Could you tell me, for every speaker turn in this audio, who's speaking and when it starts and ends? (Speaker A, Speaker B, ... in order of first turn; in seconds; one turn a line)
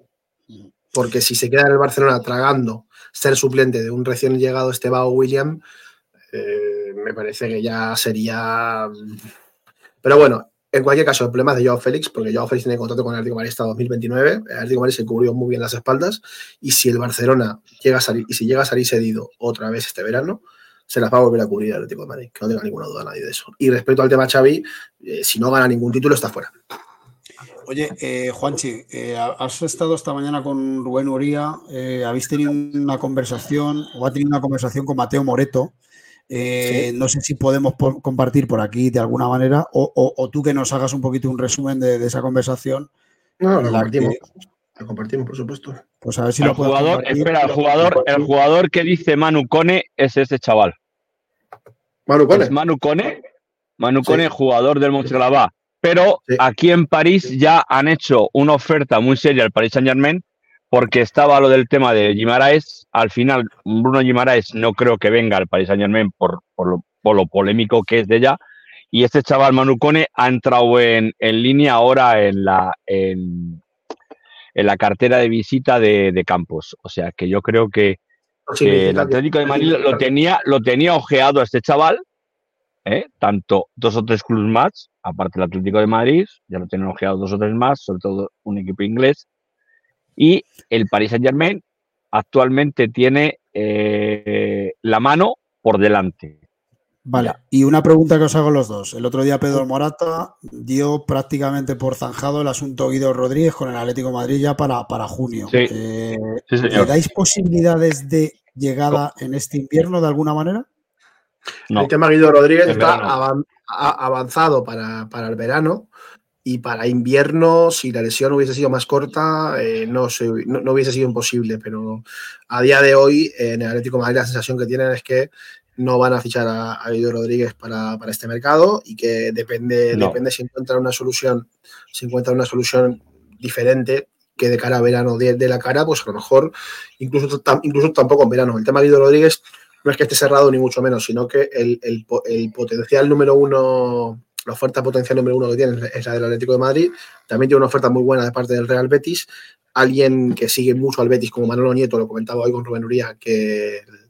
Speaker A: 0.9-5.6
Speaker A: 6.3-9.2
Speaker A: 10.0-26.5
Speaker B: 27.6-35.7
Speaker B: 36.3-42.9
Speaker A: 36.6-36.9
Speaker A: 43.4-45.8
Speaker B: 43.6-44.2
Speaker B: 46.0-47.3
Speaker C: 46.4-50.8
Speaker A: 52.1-52.5
Speaker C: 52.3-53.2
Speaker C: 53.8-68.4
Speaker C: 68.9-73.6
Speaker C: 74.5-78.0
Speaker A: 78.5-80.0
Speaker C: 78.6-82.0
Speaker C: 82.8-89.2
Speaker C: 90.2-96.4
Speaker B: 97.0-110.7
Speaker C: 106.5-106.9
Speaker A: 111.7-115.9
Speaker C: 112.7-113.2
Speaker A: 116.4-153.9
Speaker C: 129.9-130.2